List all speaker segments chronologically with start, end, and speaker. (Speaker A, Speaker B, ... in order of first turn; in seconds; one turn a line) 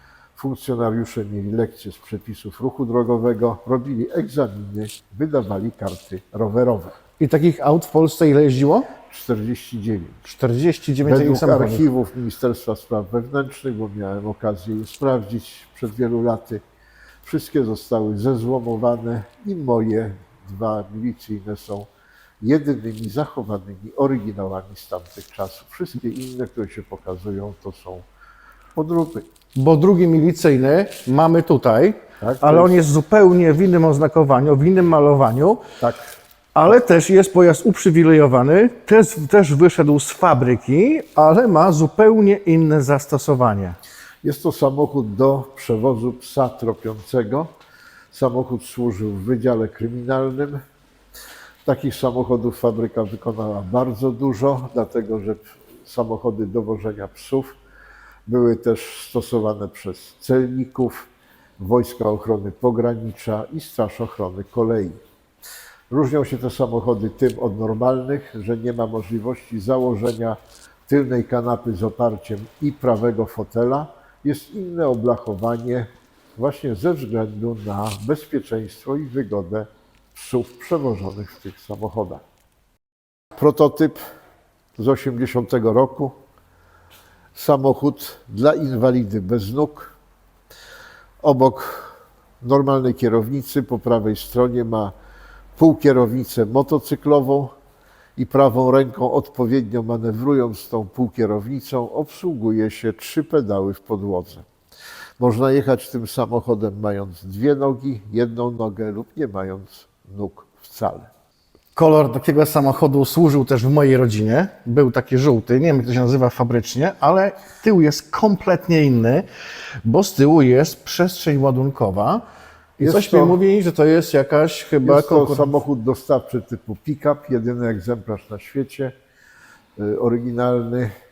Speaker A: 0.3-7.0
Speaker B: 7.2-8.9
Speaker A: 9.1-10.2
Speaker B: 10.2-11.8
Speaker A: 11.0-16.6
Speaker A: 17.2-21.9
Speaker A: 22.4-28.1
Speaker A: 28.8-29.2
Speaker B: 29.5-35.6
Speaker A: 32.2-32.8
Speaker A: 35.8-36.1
Speaker B: 36.5-43.8
Speaker A: 44.2-47.5
Speaker A: 48.1-50.6
Speaker A: 51.6-57.5
Speaker A: 58.3-65.0
Speaker A: 65.9-82.2
Speaker A: 83.3-84.0
Speaker A: 84.8-86.1
Speaker A: 87.3-89.9
Speaker A: 91.2-94.9
Speaker A: 95.5-97.5
Speaker A: 98.2-104.5
Speaker A: 105.2-111.1
Speaker B: 111.8-119.2
Speaker B: 119.8-122.2
Speaker B: 122.8-125.5
Speaker A: 122.8-123.4
Speaker A: 124.8-128.9
Speaker A: 129.8-130.9